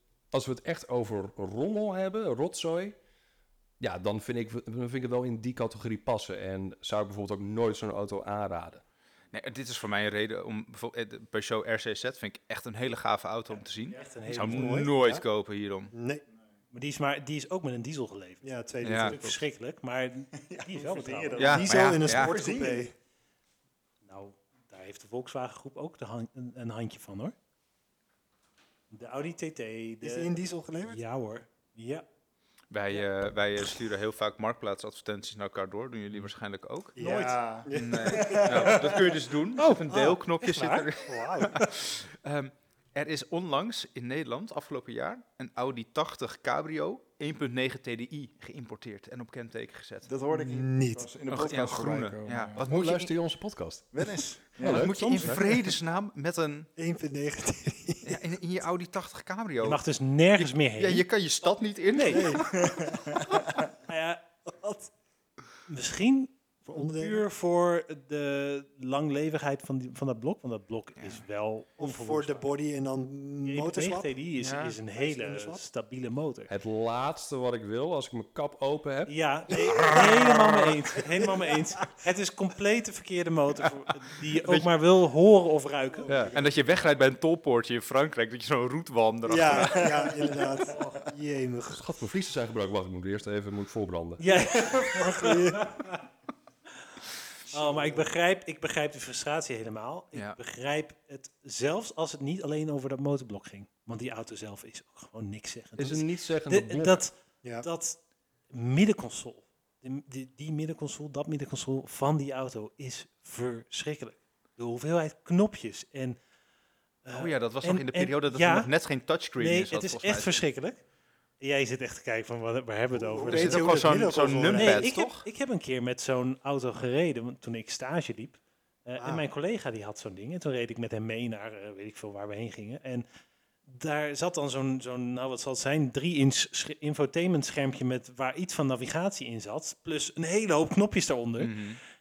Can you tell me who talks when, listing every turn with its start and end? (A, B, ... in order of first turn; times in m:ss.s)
0:00.3-0:03.0 A
0:03.8-0:08.8 A
0:09.3-0:15.9 B
0:14.0-0:14.8 C
0:14.2-0:15.2 D
0:15.9-0:16.2 D
0:16.7-0:21.7 C
0:18.4-0:19.3 D
0:18.8-0:19.3 B
0:20.4-0:22.9 E
0:21.3-0:22.9 D
0:21.4-0:22.3 B
0:24.0-0:27.3 C
0:28.9-0:30.3 C
0:30.0-0:31.0 D
0:30.8-0:32.0 C
0:32.7-0:37.0 B
0:37.0-0:38.8 D
0:37.0-0:39.2 E
0:37.7-0:50.1 B
0:39.6-0:40.9 C
0:39.9-0:40.2 D
0:41.0-0:41.6 D
0:50.0-0:52.6 E
0:50.3-0:51.1 D
0:51.3-0:53.1 B
0:52.6-0:55.4 A
0:53.9-0:55.0 E
0:54.6-0:56.7 B
0:54.8-0:55.4 D
0:56.8-0:58.2 D
0:58.0-0:59.8 B
0:59.6-1:01.0 C
1:00.3-1:02.5 B
1:01.9-1:02.4 C
1:02.1-1:02.4 D
1:02.4-1:03.6 E
1:03.9-1:04.2 C
1:04.4-1:04.9 D
1:05.7-1:12.4 C
1:06.6-1:07.2 D
1:11.0-1:11.2 B
1:11.8-1:14.1 D
1:13.4-1:16.5 C
1:14.4-1:14.8 B
1:14.9-1:15.6 D
1:16.5-1:19.1 A
1:19.1-1:26.3 C
1:19.8-1:20.4 D
1:21.1-1:21.9 D
1:24.4-1:24.7 B
1:25.9-1:26.5 D
1:26.0-1:26.4 A
1:26.3-1:30.3 B
1:29.3-1:31.8 D
1:29.5-1:30.9 E
1:31.7-1:34.3 A
1:34.2-1:36.0 C
1:34.6-1:35.9 D
1:37.5-1:48.0 C
1:37.6-1:38.0 D
1:45.8-1:47.0 A
1:48.5-1:56.2 C
1:57.0-1:58.7 C
1:57.1-2:00.4 B
1:59.4-2:00.8 C
2:01.4-2:03.8 C
2:02.9-2:04.9 D
2:03.2-2:05.2 B
2:04.5-2:13.0 C
2:09.0-2:09.2 D
2:13.6-2:21.6 C
2:21.4-2:21.8 B